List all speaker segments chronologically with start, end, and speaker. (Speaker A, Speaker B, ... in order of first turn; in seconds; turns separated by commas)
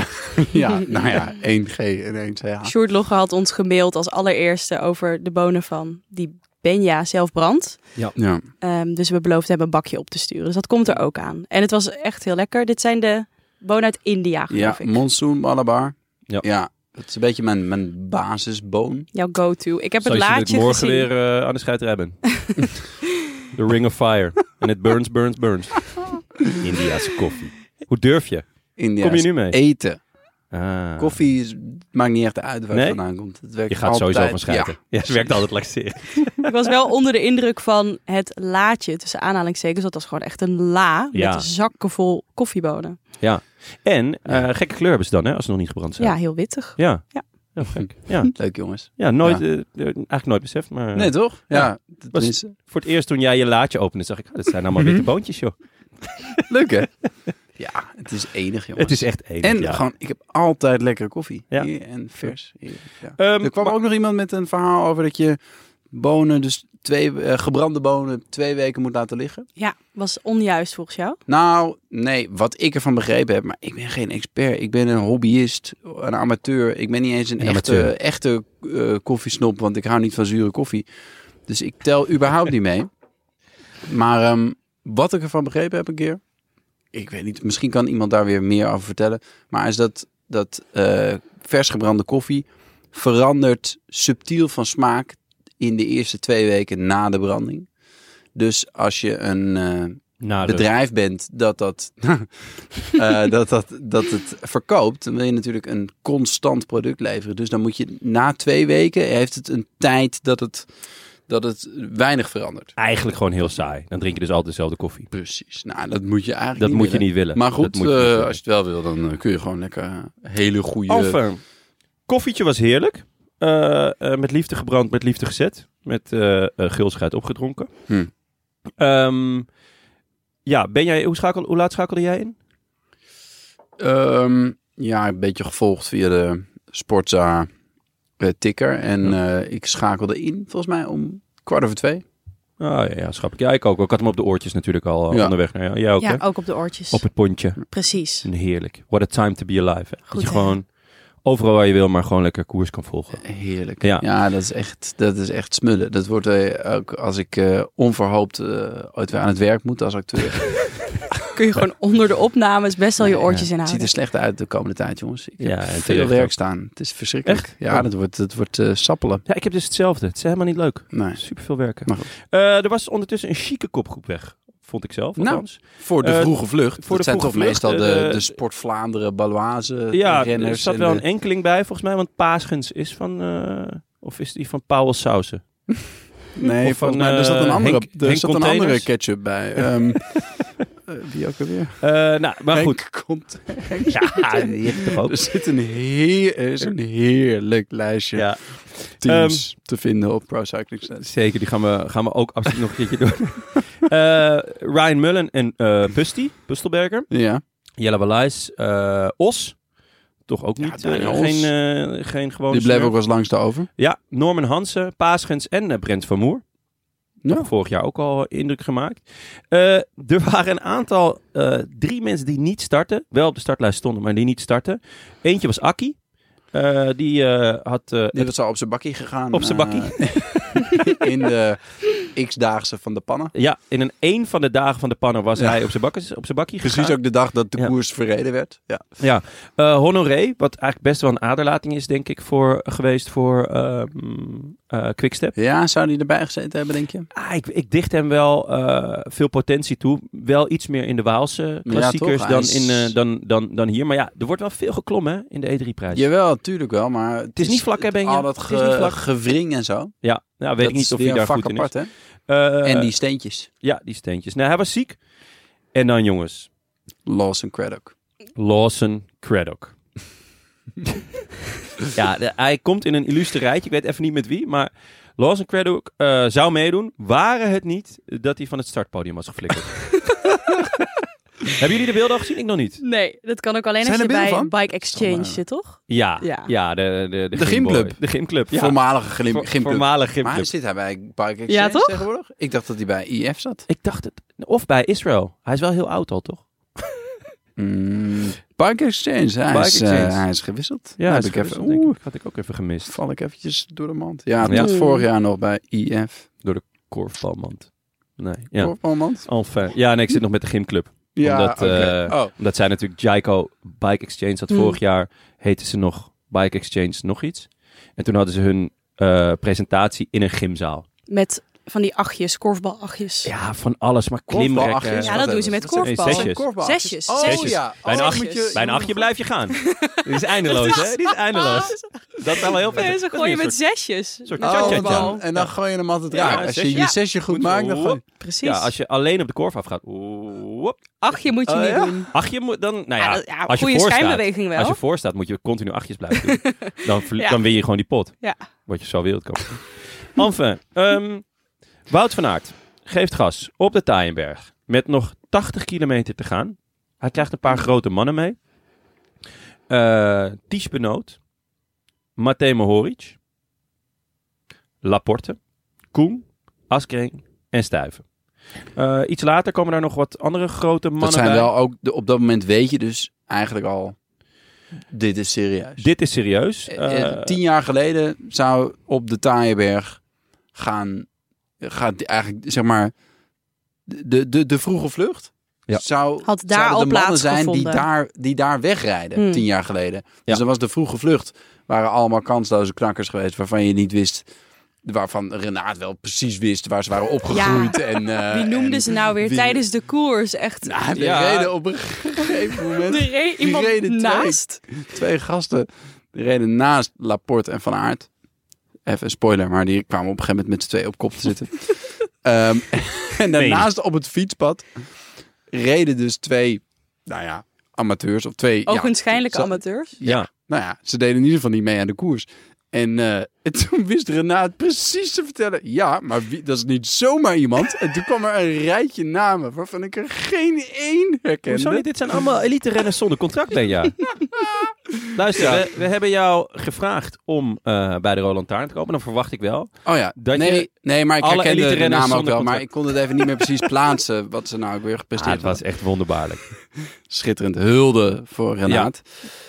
Speaker A: 0.2-2.7, Speaker B: 2.6-7.8, Speaker A: 8.2-8.4, Speaker B: 8.6-15.0, Speaker A: 14.5-19.1, Speaker B: 19.1-21.1, Speaker C: 20.0-22.2, Speaker C: 23.5-28.4, Speaker A: 28.8-30.0, Speaker C: 29.0-29.6, Speaker C: 30.5-31.1, Speaker A: 31.0-35.4, Speaker C: 32.7-33.0, Speaker C: 33.7-36.5, Speaker B: 36.4-43.0, Speaker C: 41.1-41.5, Speaker C: 43.2-48.4, Speaker B: 46.0-47.2, Speaker A: 48.3-49.4, Speaker C: 49.0-56.4, Speaker A: 50.9-52.5, Speaker A: 54.8-55.0, Speaker A: 56.5-56.9, Speaker A: 57.6-65.4, Speaker C: 58.8-59.8, Speaker C: 63.2-63.7, Speaker A: 65.9-69.5, Speaker B: 69.6-71.2, Speaker A: 71.3-80.8, Speaker C: 77.4-77.9, Speaker A: 81.5-82.9, Speaker A: 83.8-86.2, Speaker A: 86.9-97.7, Speaker A: 98.3-110.7, Speaker C: 100.2-100.7, Speaker A: 111.3-112.7, Speaker C: 112.8-115.1, Speaker A: 115.1-121.2, Speaker C: 116.6-118.4, Speaker C: 120.9-121.4, Speaker C: 122.1-127.7, Speaker C: 128.8-129.5, Speaker C: 130.4-132.3, Speaker A: 133.8-137.5, Speaker A: 138.2-142.0, Speaker C: 142.6-146.2, Speaker B: 146.0-147.0, Speaker C: 146.9-147.6, Speaker B: 147.7-148.2, Speaker C: 148.2-150.7, Speaker B: 150.1-150.5, Speaker C: 151.2-153.2, Speaker A: 153.2-160.7, Speaker B: 161.3-163.9, Speaker A: 163.0-169.2, Speaker C: 165.4-166.3, Speaker C: 167.2-167.8, Speaker C: 169.2-178.3, Speaker A: 170.9-172.1, Speaker A: 175.2-181.0, Speaker C: 179.9-185.4, Speaker A: 186.3-190.3, Speaker C: 186.6-188.9, Speaker A: 190.9-191.8, Speaker C: 191.8-192.8, Speaker A: 192.5-198.3, Speaker C: 193.9-195.2, Speaker C: 198.1-199.4, Speaker A: 199.0-201.1, Speaker C: 201.0-207.1, Speaker A: 207.1-207.4, Speaker C: 207.8-209.5, Speaker C: 210.3-212.9, Speaker A: 210.6-211.5, Speaker A: 212.5-213.7, Speaker C: 213.8-216.4, Speaker C: 217.3-226.0, Speaker C: 226.5-228.3, Speaker A: 228.1-233.3, Speaker C: 229.3-230.7, Speaker C: 233.3-237.0, Speaker A: 236.6-238.8, Speaker C: 239.0-245.3, Speaker A: 245.3-247.1, Speaker C: 247.1-256.1, Speaker A: 251.6-252.9, Speaker A: 255.9-259.9, Speaker C: 257.4-259.0, Speaker C: 260.0-261.7, Speaker A: 260.6-261.9, Speaker C: 262.3-262.9, Speaker A: 262.6-263.5, Speaker C: 263.6-265.0, Speaker C: 265.7-266.5, Speaker A: 267.1-267.9, Speaker C: 268.4-269.7, Speaker C: 271.9-279.9, Speaker C: 281.5-282.8, Speaker B: 282.8-286.5, Speaker A: 283.8-285.4, Speaker C: 285.9-288.8, Speaker A: 287.3-288.0, Speaker A: 288.5-293.7, Speaker C: 289.3-290.5, Speaker B: 291.5-292.0, Speaker C: 293.7-296.4, Speaker A: 297.6-302.0, Speaker C: 299.5-300.2, Speaker C: 301.0-302.9, Speaker A: 302.9-306.3, Speaker C: 304.4-304.7, Speaker B: 304.5-305.0, Speaker C: 306.4-320.9, Speaker A: 308.6-309.3, Speaker A: 311.1-312.3, Speaker B: 314.5-314.8, Speaker B: 321.1-323.3, Speaker C: 323.2-326.4, Speaker A: 324.3-329.1, Speaker B: 325.0-328.6, Speaker C: 327.1-333.6, Speaker B: 329.6-335.2, Speaker C: 334.2-335.5, Speaker A: 334.4-338.0, Speaker C: 336.1-340.8, Speaker B: 338.2-338.7, Speaker B: 341.0-342.1, Speaker A: 341.5-342.1, Speaker C: 342.1-351.2, Speaker B: 343.0-344.8, Speaker B: 346.2-347.4, Speaker C: 351.9-358.4, Speaker C: 359.7-361.2, Speaker C: 362.2-363.1, Speaker C: 364.8-365.4, Speaker C: 365.9-368.0, Speaker C: 368.8-371.5, Speaker A: 371.0-374.0, Speaker A: 374.9-375.9, Speaker C: 375.8-377.4, Speaker A: 376.7-380.0, Speaker A: 380.5-381.1, Speaker A: 381.6-382.9, Speaker A: 383.9-394.3, Speaker B: 386.2-387.8, Speaker B: 389.1-389.4, Speaker A: 394.8-399.6, Speaker B: 397.3-400.7, Speaker A: 400.6-408.1, Speaker C: 400.9-401.5, Speaker B: 402.8-404.6, Speaker A: 408.9-414.7, Speaker C: 413.3-413.7, Speaker A: 415.5-431.8, Speaker B: 418.6-419.9, Speaker C: 431.5-434.2, Speaker C: 435.1-442.7, Speaker A: 435.3-435.6, Speaker A: 439.8-445.6, Speaker C: 445.1-446.5, Speaker A: 447.1-449.0